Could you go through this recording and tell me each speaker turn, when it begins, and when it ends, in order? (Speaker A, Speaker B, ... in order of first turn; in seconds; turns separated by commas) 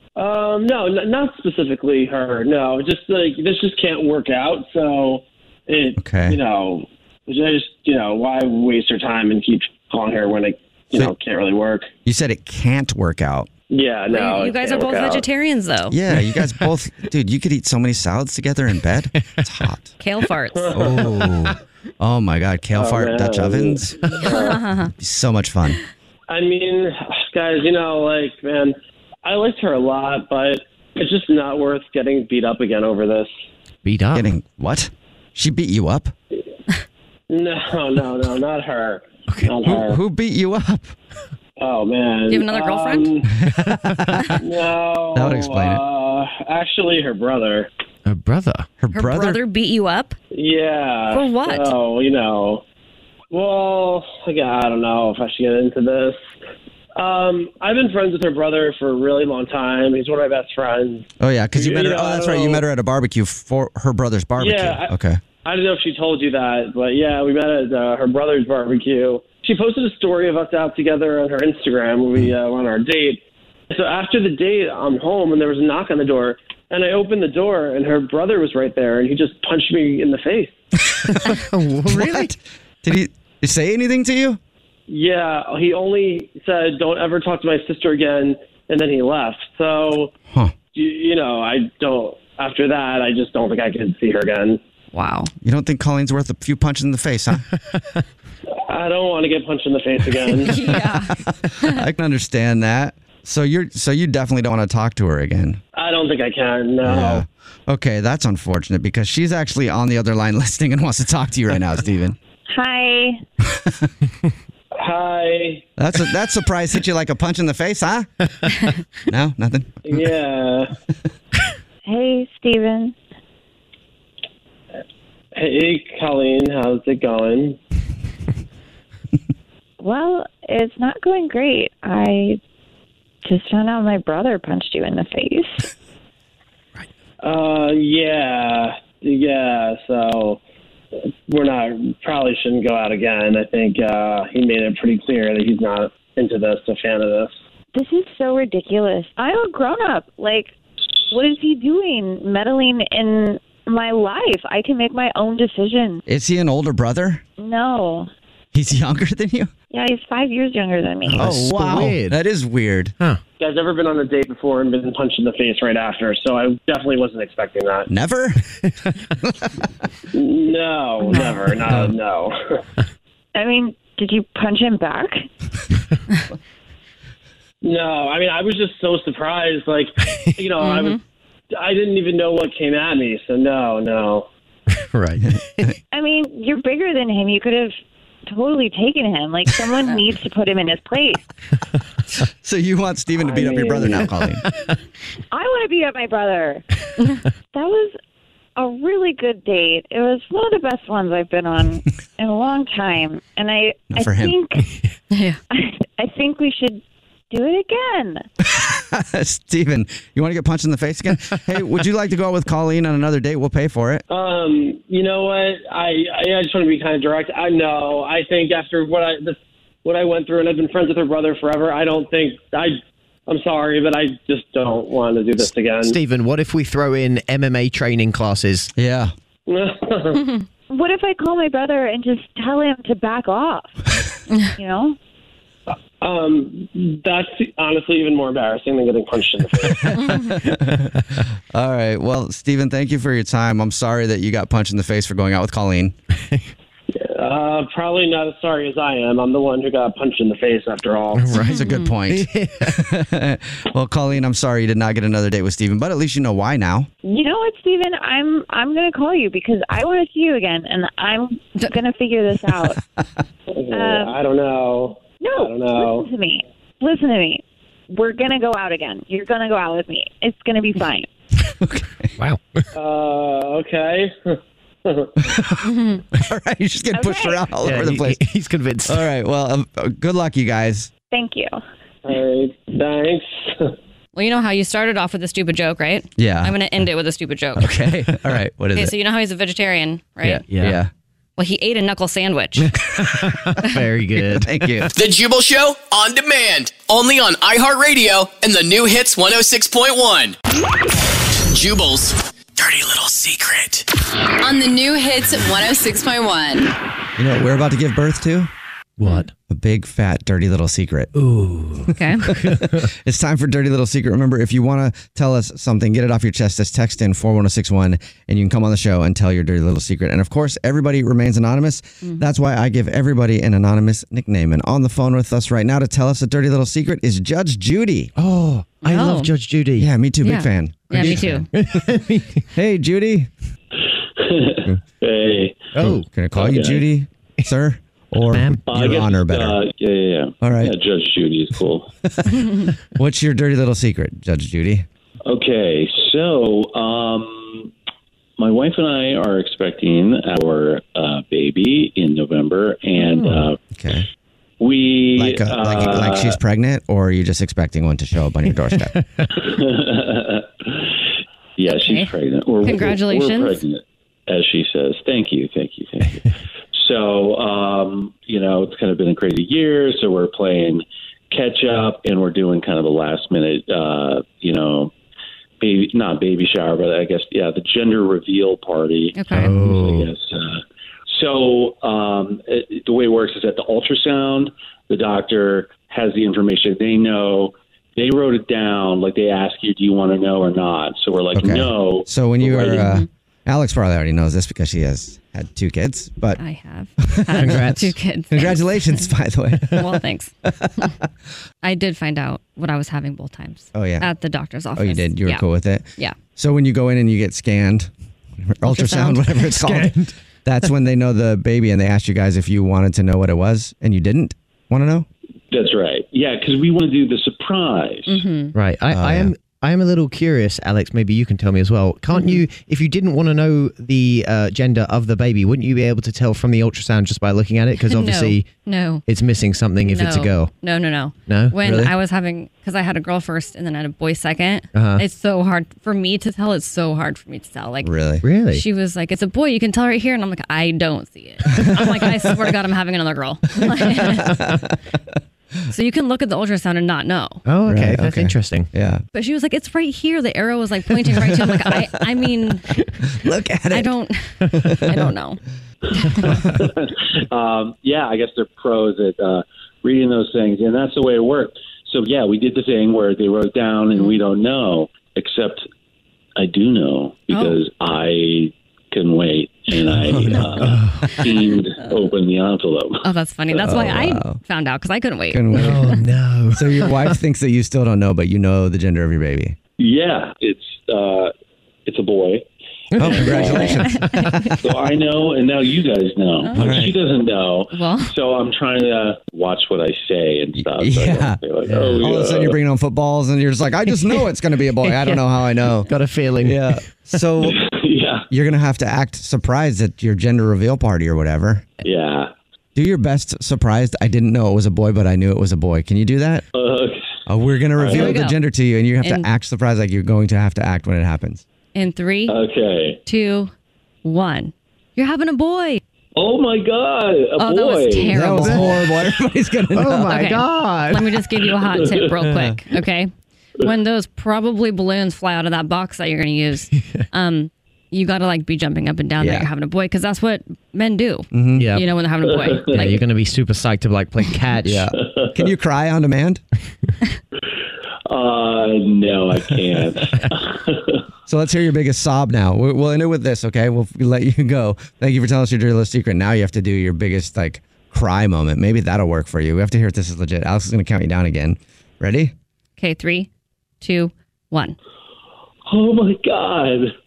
Speaker A: 0.2-11.9, Speaker B: 6.0-6.4, Speaker B: 12.1-13.5, Speaker A: 13.7-15.3, Speaker C: 14.1-16.0, Speaker B: 15.9-19.9, Speaker D: 16.1-16.7, Speaker C: 20.0-20.8, Speaker A: 20.5-21.0, Speaker B: 20.7-24.2, Speaker D: 20.8-21.6, Speaker A: 22.7-24.6, Speaker C: 24.2-24.9, Speaker B: 24.9-25.8, Speaker A: 26.3-33.3, Speaker D: 33.8-34.3, Speaker B: 34.1-36.1, Speaker A: 37.3-40.0, Speaker D: 39.3-39.6, Speaker B: 39.7-41.0, Speaker A: 41.6-43.3, Speaker C: 42.3-43.1, Speaker B: 43.4-44.4, Speaker D: 43.6-44.0, Speaker A: 44.4-47.7, Speaker B: 45.1-45.8, Speaker D: 48.0-48.7, Speaker B: 48.8-49.4, Speaker C: 48.9-50.2, Speaker A: 50.3-52.6, Speaker C: 51.1-51.7, Speaker A: 53.3-56.2, Speaker A: 57.0-62.6, Speaker B: 61.2-65.2, Speaker A: 64.4-64.9, Speaker A: 65.4-80.6, Speaker D: 81.1-82.3, Speaker B: 81.9-84.4, Speaker A: 84.9-90.1, Speaker B: 90.3-90.5, Speaker A: 90.7-94.6, Speaker C: 94.9-95.3, Speaker B: 95.4-97.4, Speaker A: 98.7-100.5, Speaker C: 100.4-101.8, Speaker B: 100.6-105.6, Speaker A: 105.8-107.2, Speaker B: 106.8-112.2, Speaker E: 112.5-113.2, Speaker B: 113.5-113.9, Speaker A: 114.8-115.7, Speaker B: 115.8-118.1, Speaker B: 119.1-120.0, Speaker A: 119.8-120.7, Speaker E: 121.8-123.0, Speaker A: 125.3-127.6, Speaker E: 129.8-132.4, Speaker E: 133.2-135.7, Speaker A: 137.2-140.4, Speaker A: 141.3-147.3, Speaker E: 147.7-150.5, Speaker E: 151.1-156.0, Speaker B: 156.1-157.2, Speaker E: 157.4-158.1, Speaker B: 158.5-159.5, Speaker E: 159.7-161.2, Speaker D: 161.1-162.2, Speaker B: 161.1-162.9, Speaker A: 163.4-167.9, Speaker B: 167.9-168.4, Speaker B: 169.2-169.6, Speaker A: 170.1-172.6, Speaker E: 171.1-171.3, Speaker B: 171.7-171.9, Speaker E: 173.3-175.3, Speaker A: 177.6-181.0, Speaker C: 180.6-181.0, Speaker A: 181.6-184.3, Speaker D: 184.7-185.7, Speaker B: 185.3-185.7, Speaker E: 185.9-187.8, Speaker E: 188.3-191.3, Speaker B: 192.4-194.4, Speaker A: 193.2-194.0, Speaker D: 194.4-194.7, Speaker E: 195.3-196.7, Speaker E: 197.5-197.9, Speaker E: 198.6-204.6, Speaker B: 203.9-204.4, Speaker C: 205.1-205.4, Speaker E: 205.5-208.2, Speaker B: 208.4-214.0, Speaker A: 214.1-226.0, Speaker D: 225.8-228.7, Speaker B: 228.8-229.1, Speaker A: 229.5-230.2, Speaker E: 230.7-233.8, Speaker E: 234.6-235.0, Speaker A: 236.0-239.8, Speaker B: 239.8-240.9, Speaker C: 240.0-240.3, Speaker B: 241.5-246.0, Speaker A: 246.9-251.3, Speaker D: 251.1-251.6, Speaker C: 251.4-251.9, Speaker B: 251.4-256.9, Speaker D: 252.1-252.9, Speaker E: 257.0-262.8, Speaker A: 263.5-266.1, Speaker E: 263.7-264.2, Speaker E: 265.2-271.1, Speaker B: 271.6-272.1, Speaker D: 272.2-272.7, Speaker A: 272.8-275.1, Speaker B: 275.2-278.2, Speaker C: 275.6-276.0, Speaker E: 276.9-277.5, Speaker D: 277.6-279.1, Speaker B: 278.9-280.9, Speaker E: 281.1-281.6, Speaker A: 282.1-283.7, Speaker C: 284.1-287.7, Speaker B: 286.2-286.6, Speaker B: 287.6-288.9, Speaker C: 288.8-290.4, Speaker B: 290.3-290.9, Speaker D: 290.4-290.8, Speaker C: 291.4-292.7, Speaker D: 292.9-294.9, Speaker B: 294.2-294.9, Speaker F: 294.9-300.4, Speaker F: 301.5-303.9, Speaker G: 304.4-306.7, Speaker B: 307.2-308.5, Speaker D: 309.0-309.3, Speaker B: 309.5-311.1, Speaker D: 311.1-312.9, Speaker C: 311.9-312.3, Speaker B: 312.3-328.1, Speaker D: 328.2-329.9, Speaker C: 328.8-329.3, Speaker B: 329.8-331.5, Speaker C: 330.2-331.5, Speaker D: 330.9-332.5, Speaker B: 332.6-333.3, Speaker H: 334.2-335.7, Speaker D: 335.7-336.1, Speaker B: 335.8-339.6, Speaker H: 336.4-336.9, Speaker D: 338.3-339.0, Speaker H: 338.7-341.9, Speaker B: 340.4-340.8, Speaker B: 343.0-344.9, Speaker H: 345.3-347.7, Speaker H: 348.4-353.6, Speaker D: 353.0-353.5, Speaker B: 353.7-354.1, Speaker H: 354.6-356.4, Speaker B: 355.2-358.9, Speaker D: 358.5-359.3, Speaker H: 359.4-360.9, Speaker H: 361.6-374.9, Speaker C: 361.7-363.6, Speaker H: 375.6-392.8, Speaker C: 379.1-379.6, Speaker D: 379.3-380.1, Speaker B: 391.3-396.4, Speaker C: 392.7-393.1, Speaker C: 396.4-399.1, Speaker B: 397.0-397.7, Speaker D: 397.4-397.9, Speaker B: 398.3-399.9, Speaker C: 399.7-400.9, Speaker C: 401.6-405.4, Speaker B: 403.7-404.1, Speaker B: 404.8-415.1, Speaker C: 408.7-409.5, Speaker D: 409.4-410.1, Speaker H: 415.5-418.2, Speaker C: 418.1-418.6, Speaker D: 418.5-428.5, Speaker B: 418.9-419.3, Speaker C: 422.1-422.4, Speaker C: 427.9-429.0, Speaker D: 429.1-430.5, Speaker C: 429.8-437.9, Speaker D: 431.3-431.6, Speaker B: 431.6-431.9, Speaker D: 434.7-435.0, Speaker B: 437.8-438.2, Speaker D: 438.2-438.6, Speaker C: 438.5-444.4, Speaker C: 445.7-447.4, Speaker D: 447.4-448.7, Speaker B: 447.7-449.0, Speaker C: 449.1-452.6, Speaker B: 453.2-453.9, Speaker C: 453.7-455.4, Speaker B: 454.5-455.0, Speaker C: 455.9-456.4, Speaker H: 456.6-465.7, Speaker H: 466.4-473.0, Speaker C: 467.3-467.6, Speaker B: 469.9-470.8, Speaker D: 470.4-471.2, Speaker C: 473.0-475.4, Speaker B: 473.6-474.4, Speaker B: 475.3-475.9, Speaker D: 475.5-477.2, Speaker B: 476.5-479.6, Speaker H: 479.8-481.3, Speaker H: 481.9-482.4, Speaker D: 482.9-484.5, Speaker B: 483.0-484.3, Speaker C: 483.3-484.5, Speaker H: 484.6-492.6, Speaker B: 486.5-487.0, Speaker C: 487.7-488.1, Speaker B: 490.6-491.4, Speaker D: 491.6-492.1, Speaker B: 492.0-495.9, Speaker C: 494.9-495.2, Speaker D: 495.9-496.9, Speaker B: 496.4-497.6, Speaker H: 497.5-498.2, Speaker B: 498.3-501.7, Speaker H: 501.8-502.3, Speaker B: 502.8-506.5, Speaker H: 506.6-507.0, Speaker B: 507.3-511.4, Speaker H: 507.8-508.1, Speaker C: 507.9-508.4, Speaker C: 511.8-512.4, Speaker H: 512.3-513.0, Speaker C: 513.0-513.5, Speaker C: 514.0-515.8, Speaker H: 516.2-518.2, Speaker C: 517.4-518.8, Speaker B: 518.1-520.4, Speaker D: 518.2-519.0, Speaker D: 519.7-521.2, Speaker C: 520.0-533.0, Speaker D: 526.8-527.0, Speaker B: 529.2-529.5, Speaker B: 531.3-531.7, Speaker D: 531.6-531.9, Speaker D: 532.6-534.9, Speaker B: 534.6-536.4, Speaker H: 535.0-535.3, Speaker H: 538.1-541.0, Speaker B: 541.3-552.3, Speaker C: 552.8-553.3, Speaker C: 553.8-554.8, Speaker H: 555.7-556.9